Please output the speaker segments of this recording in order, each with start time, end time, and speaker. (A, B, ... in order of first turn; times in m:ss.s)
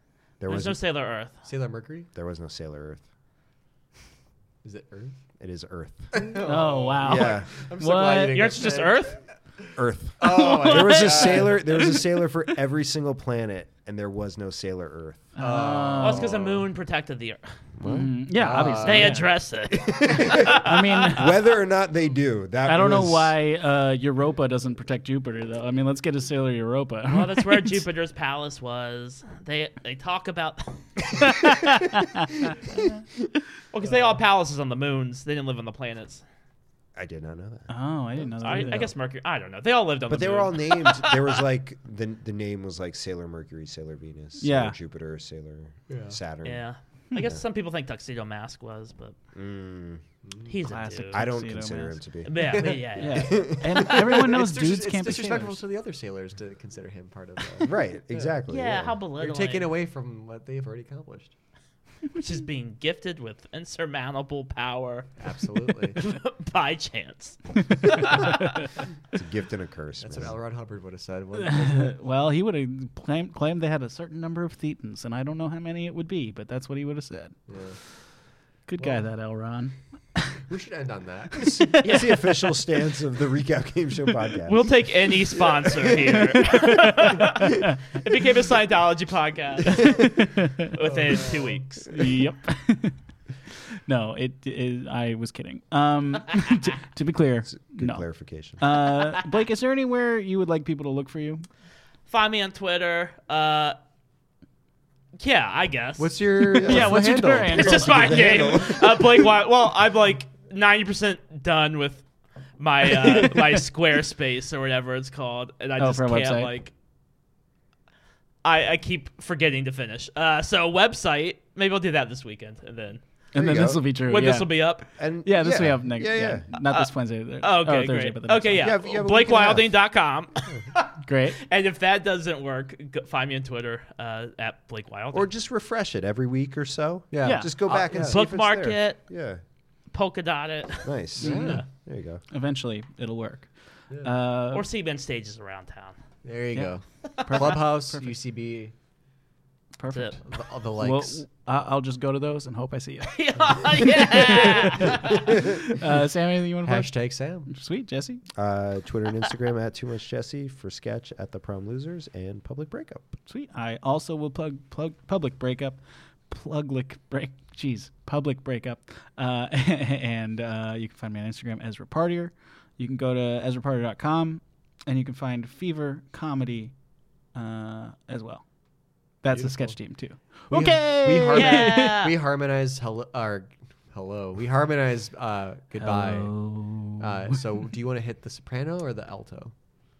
0:00.4-0:00.8 A
0:00.4-0:01.4 B
0:01.4-0:02.1 C
0:02.2-0:03.0 A
0:04.6-0:05.2 C
0:05.4-0:06.4 A
0:06.1-0:09.7 C
0:06.4-0:08.4 D
0:07.0-0:07.5 A
0:08.3-0:09.2 B
0:09.8-0:15.4 A
0:10.2-0:11.9 C
0:10.3-0:11.5 B
0:15.4-0:16.3 D
0:15.4-0:16.7 C
0:16.0-0:17.6 B
0:17.8-0:18.2 A
0:17.8-0:19.3 D
0:18.3-0:19.3 C
0:18.8-0:21.1 B
0:19.7-0:23.4 A
0:20.2-0:21.3 D
0:22.7-0:27.8 D
0:27.1-0:31.5 B
0:31.2-0:32.9 D
0:33.7-0:36.2 B
0:37.0-0:38.8 A
0:37.7-0:38.9 D
0:38.4-0:41.4 B
0:40.1-0:46.6 A
0:44.4-0:44.8 D
0:45.9-0:46.2 C
0:46.4-0:49.2 B
0:49.3-0:50.0 A
0:50.2-0:50.5 C
0:50.5-0:51.2 B
0:50.6-0:52.0 D
0:51.1-0:53.8 A
0:52.2-0:53.8 B
0:52.4-0:52.9 C
0:53.0-0:55.6 D
0:53.8-0:58.4 C
0:57.6-0:59.0 A
0:58.5-0:59.8 B
0:59.2-1:01.4 C
1:02.1-1:05.2 B
1:05.2-1:06.0 C
1:05.9-1:08.6 B
1:08.1-1:08.7 D
1:09.1-1:10.4 A
1:10.0-1:12.0 C
1:11.4-1:17.4 D
1:17.5-1:17.8 C
1:18.7-1:20.4 D
1:18.8-1:19.0 C
1:20.5-1:21.5 C
1:21.4-1:22.0 D
1:21.5-1:24.8 A
1:21.8-1:22.4 B
1:24.5-1:30.1 B
1:26.5-1:27.8 D
1:29.8-1:30.7 D
1:30.7-1:32.1 B
1:30.8-1:31.6 C
1:31.9-1:33.0 D
1:33.5-1:38.1 D
1:37.5-1:38.6 A
1:38.6-1:41.4 D
1:42.1-1:43.8 B
1:45.2-1:46.2 B
1:46.0-1:48.2 C
1:46.5-1:48.2 D
1:46.6-1:49.3 A
1:47.5-1:52.0 B
1:52.6-1:56.7 B
1:55.8-1:56.5 D
1:58.4-2:03.0 B
2:03.3-2:04.5 D
2:03.4-2:03.8 A
2:04.0-2:04.9 B
2:05.0-2:06.5 A
2:05.2-2:08.7 D
2:06.5-2:06.9 B
2:07.4-2:15.3 B
2:08.6-2:09.8 A
2:11.0-2:11.4 D
2:15.1-2:19.4 A
2:17.1-2:18.2 C
2:17.2-2:17.5 D
2:17.9-2:19.0 B
2:19.9-2:21.0 B
2:20.8-2:22.2 A
2:21.2-2:21.6 C
2:21.2-2:21.6 D
2:22.3-2:24.6 D
2:24.5-2:26.0 B
2:26.2-2:28.7 C
2:26.5-2:28.2 D
2:29.8-2:30.2 D
2:30.2-2:31.2 C
2:30.8-2:36.9 D
2:33.0-2:35.4 B
2:35.2-2:35.6 A
2:36.6-2:37.5 C
2:37.5-2:38.2 D
2:38.4-2:43.1 A
2:43.3-2:56.8 D
2:57.3-2:58.5 D
2:59.2-3:02.0 D
2:59.3-2:59.8 C
3:00.5-3:06.3 C
3:01.3-3:02.1 B
3:05.8-3:07.4 D
3:07.0-3:09.5 C